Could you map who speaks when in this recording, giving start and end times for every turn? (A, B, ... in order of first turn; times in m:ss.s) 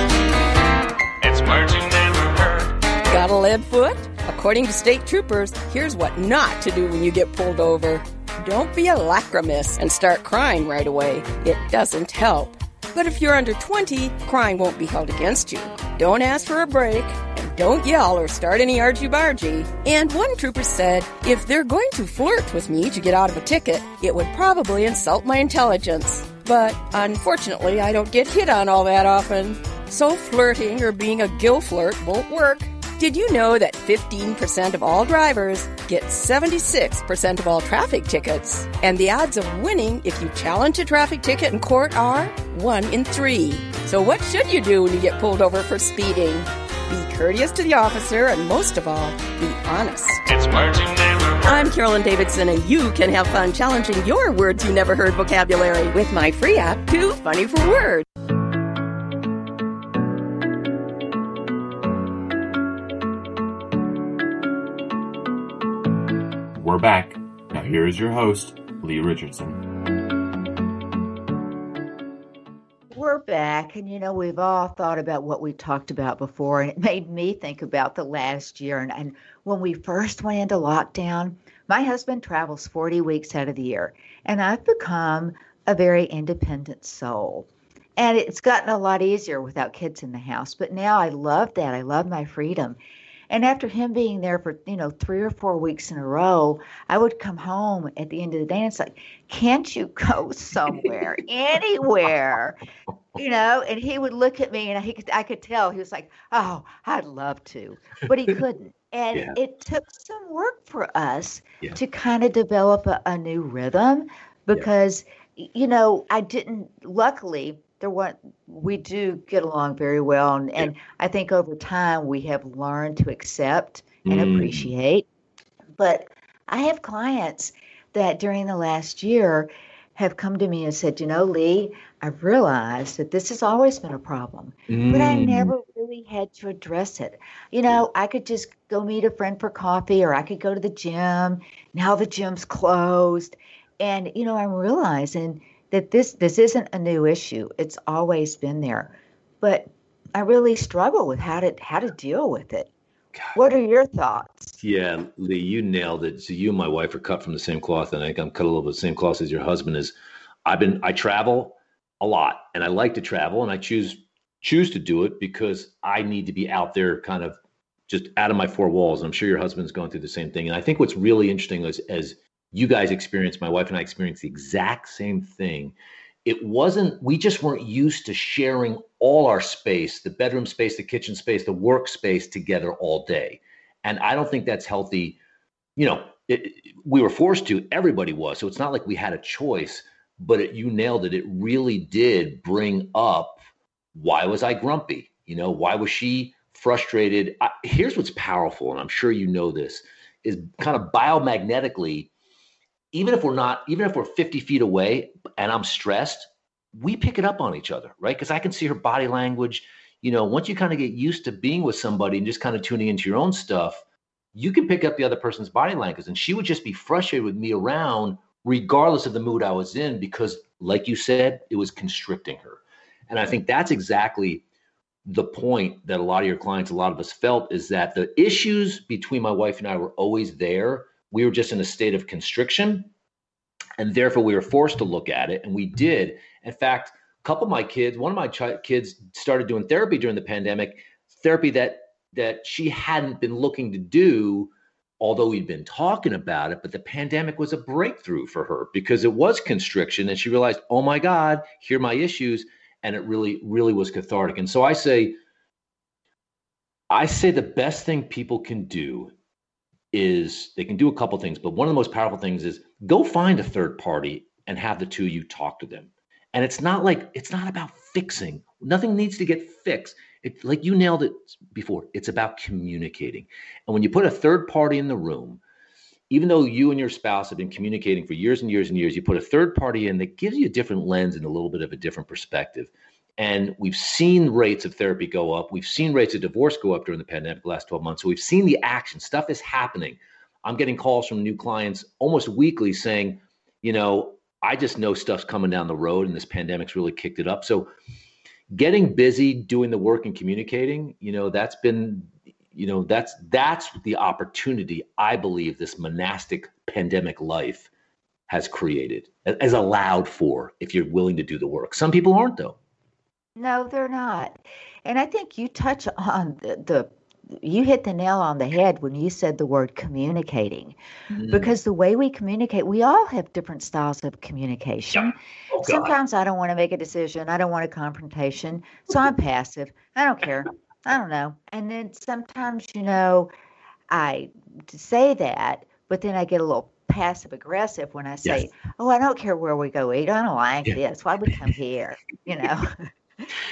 0:01.2-0:02.8 A
0:03.1-0:50.2 B
0:50.3-0:51.7 A
0:51.4-0:58.0 B
1:06.6-1:09.6 C
1:12.9-1:32.8 D
1:33.3-1:42.6 D
1:43.2-2:05.1 D
2:04.0-2:04.7 E
2:05.8-2:32.7 D
2:14.7-2:15.5 E
2:33.4-2:34.6 D
2:34.6-3:05.2 E
3:05.8-3:13.4 E
3:13.9-3:22.1 E
3:22.9-3:33.8 E
3:34.4-3:44.4 E
3:45.0-3:52.9 E
3:53.8-4:15.2 E
4:16.9-4:19.1 E
4:19.9-4:35.4 E
4:36.1-4:57.7 E
4:58.5-5:07.7 E
5:08.3-5:12.6 E
5:13.4-5:20.8 D
5:21.1-5:21.5 E
5:21.3-5:33.3 D
5:24.9-5:25.9 E
5:33.9-5:42.9 D